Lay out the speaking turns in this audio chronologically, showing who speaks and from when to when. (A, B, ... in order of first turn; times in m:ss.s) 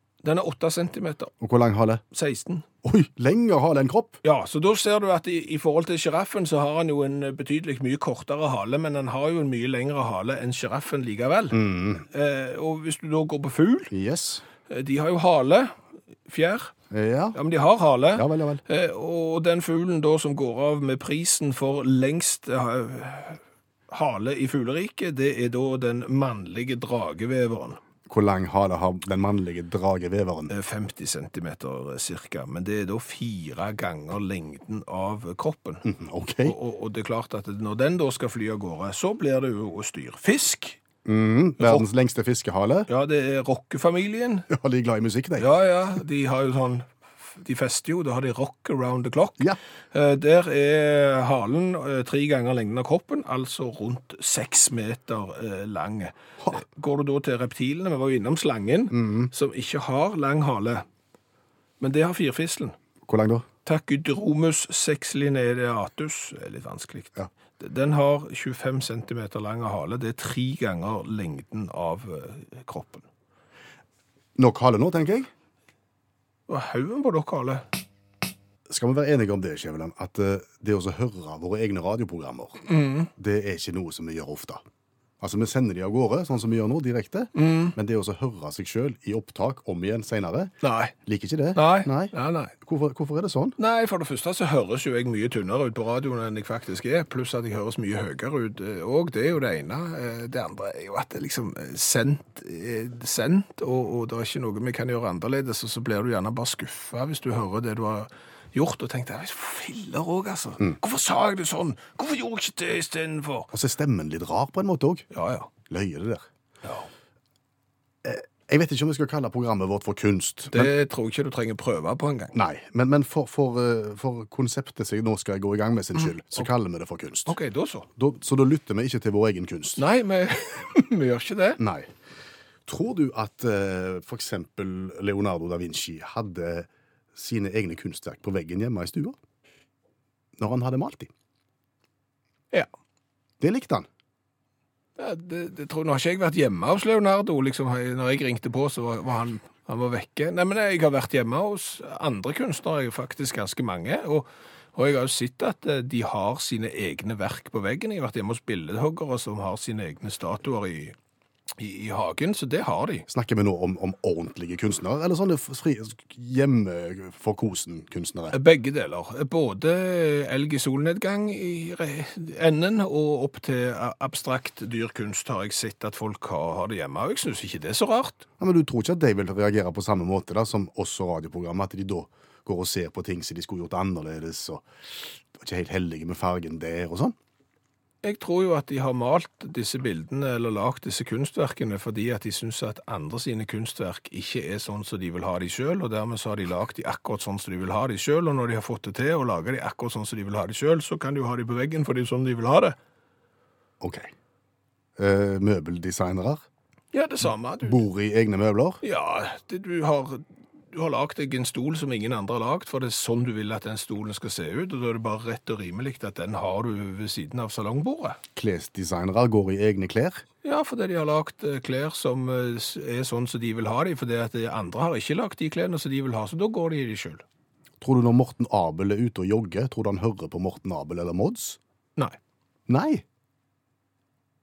0:00.2-0:01.3 A
0:01.4-0:02.0 B
0:02.1-0:02.6 A
0:02.8-0:04.2 B
0:04.2-0:13.9 A
0:11.5-0:12.0 B
0:13.9-0:14.4 B
0:14.7-0:16.7 A
0:16.9-0:17.4 B
0:17.4-0:27.8 A
0:18.2-0:18.6 B
0:28.1-0:30.5 B
0:30.5-0:35.8 A
0:35.8-0:36.6 B
0:36.4-0:40.8 A
0:41.0-0:42.9 B
0:41.6-0:41.9 A
0:42.9-0:44.5 A
0:44.5-0:45.5 B
0:45.4-1:00.9 A
0:58.9-0:59.3 B
1:01.8-1:02.8 A
1:03.1-1:03.5 B
1:03.6-1:13.0 A
1:14.4-1:15.3 B
1:16.5-1:17.6 A
1:18.7-1:22.6 B
1:22.6-1:23.1 A
1:23.2-1:24.6 B
1:25.2-1:30.5 B
1:27.4-1:27.8 A
1:30.6-1:30.9 A
1:31.0-1:33.6 B
1:31.6-1:32.5 A
1:33.6-1:53.5 A
1:53.5-1:55.1 B
1:55.1-1:55.5 A
1:55.7-1:56.3 B
1:58.0-2:00.7 B
2:00.5-2:02.4 A
2:02.3-2:07.3 B
2:07.3-2:07.9 A
2:08.0-2:09.8 B
2:09.8-2:11.6 A
2:11.6-2:11.9 B
2:12.7-2:19.2 B
2:20.4-2:21.1 B
2:23.4-2:23.9 B
2:25.0-2:41.0 A
2:41.6-2:43.1 A
2:43.1-2:48.4 B
2:48.3-2:58.3 A
2:58.4-3:04.6 B
3:05.3-3:07.2 B
3:08.0-3:22.8 A
3:23.8-3:24.1 B
3:25.0-3:26.4 B
3:26.9-3:27.8 A
3:27.6-3:28.8 B
3:28.8-3:38.2 A
3:38.4-3:40.2 B
3:40.4-3:47.2 A
3:47.8-3:51.6 B
3:52.7-3:53.0 B